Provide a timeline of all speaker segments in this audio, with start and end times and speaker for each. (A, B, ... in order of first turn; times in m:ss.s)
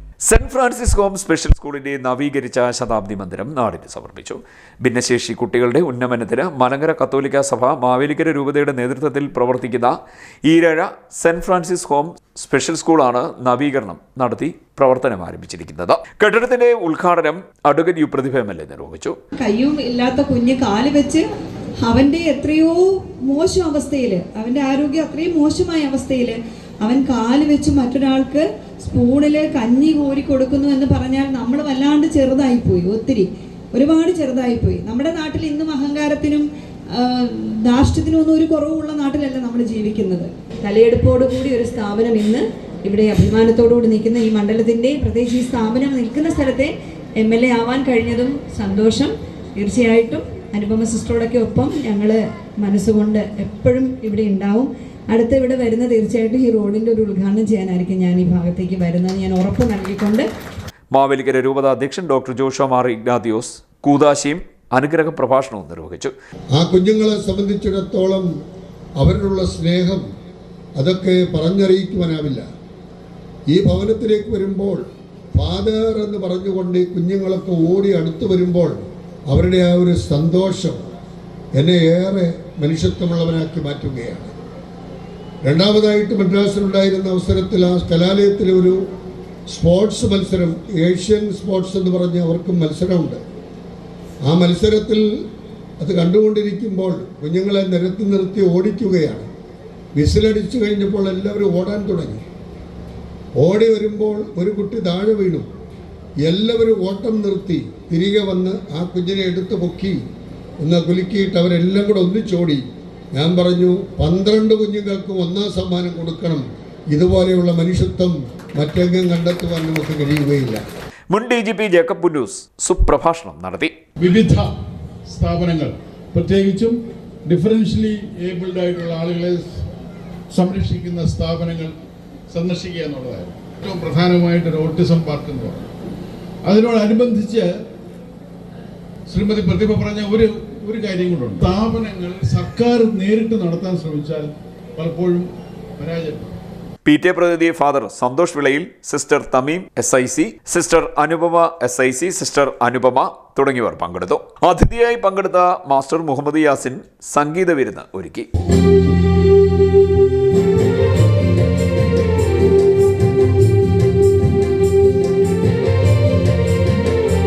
0:00.2-0:19.2 A
0:19.4-0:21.2 B
0:21.8-1:00.2 B
1:00.9-1:06.1 A
1:06.5-1:08.3 C
1:09.0-1:10.1 C
1:10.8-1:12.4 C
1:13.5-1:14.8 C
1:15.3-1:20.8 C
1:21.5-1:24.3 C
1:25.4-1:28.8 C
1:29.5-1:33.2 C
1:34.3-1:35.1 C
1:35.8-1:39.3 C
1:39.9-1:42.2 C
1:43.4-1:45.5 C
1:46.2-1:50.0 C
1:50.6-1:52.6 C
1:53.1-2:00.6 C
2:01.1-2:03.7 A
2:04.0-2:04.5 D
2:05.0-2:09.6 D
2:10.3-2:11.7 D
2:12.3-2:15.6 D
2:16.4-2:17.5 D
2:19.1-2:26.3 D
2:26.8-2:38.3 A